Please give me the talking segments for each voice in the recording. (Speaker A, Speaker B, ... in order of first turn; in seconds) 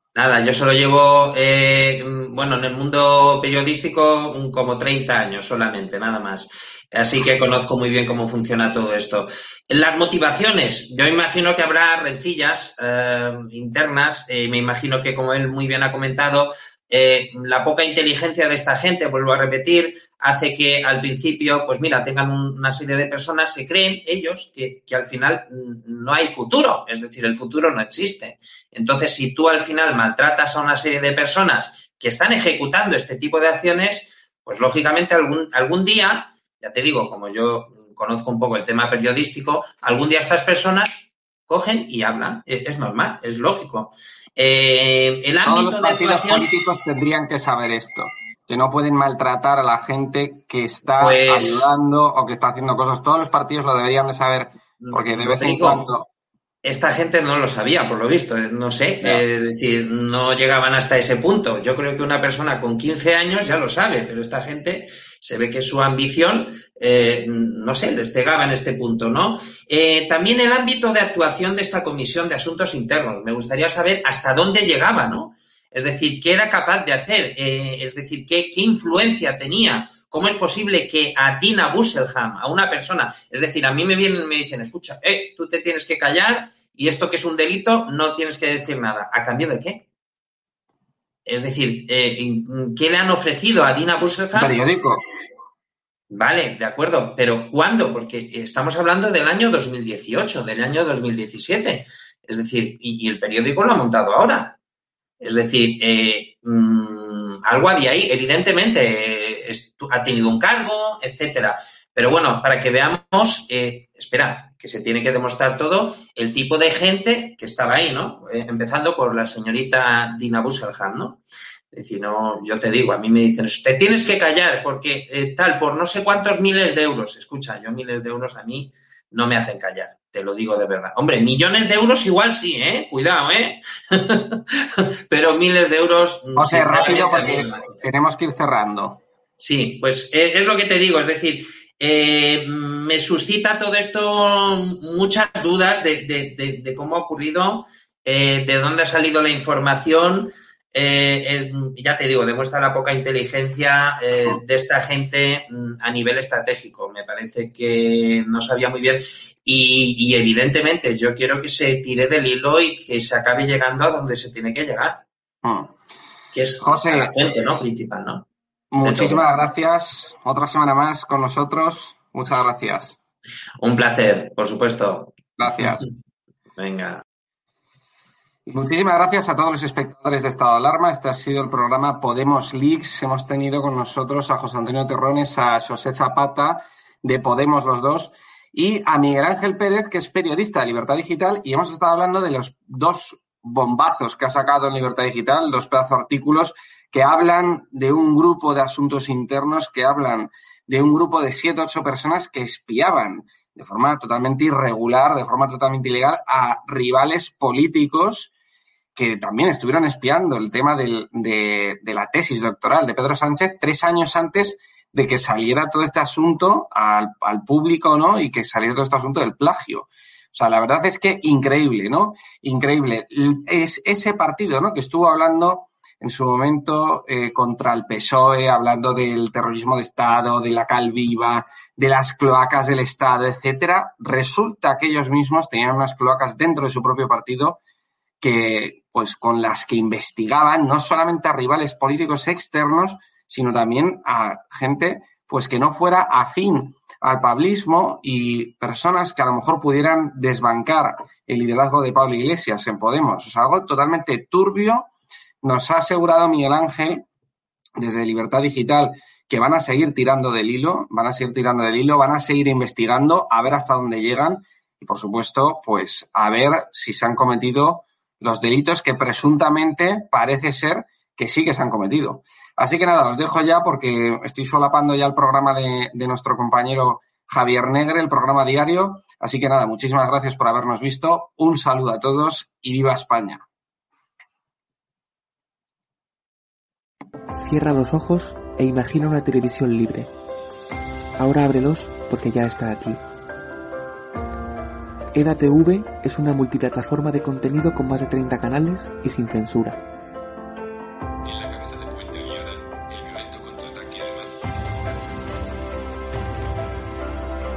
Speaker A: 0.1-46.5, 51.0-51.7, 54.8-55.8, 56.6-89.8, 91.2-94.5, 96.1-104.6, 105.2-137.8, 139.4-165.0, 166.3-168.3, 168.8-169.2, 173.6-175.6, 176.6-177.0
Speaker B: 45.4-56.1, 94.3-95.0, 136.3-139.0, 165.4-165.7, 166.6-167.1, 168.7-173.0, 175.4-175.9, 178.5-208.3, 208.9-237.6, 238.2-254.9, 255.4-257.1, 257.8-283.4, 301.2-304.3
Speaker C: 287.4-290.1, 291.2-293.0, 295.1-299.8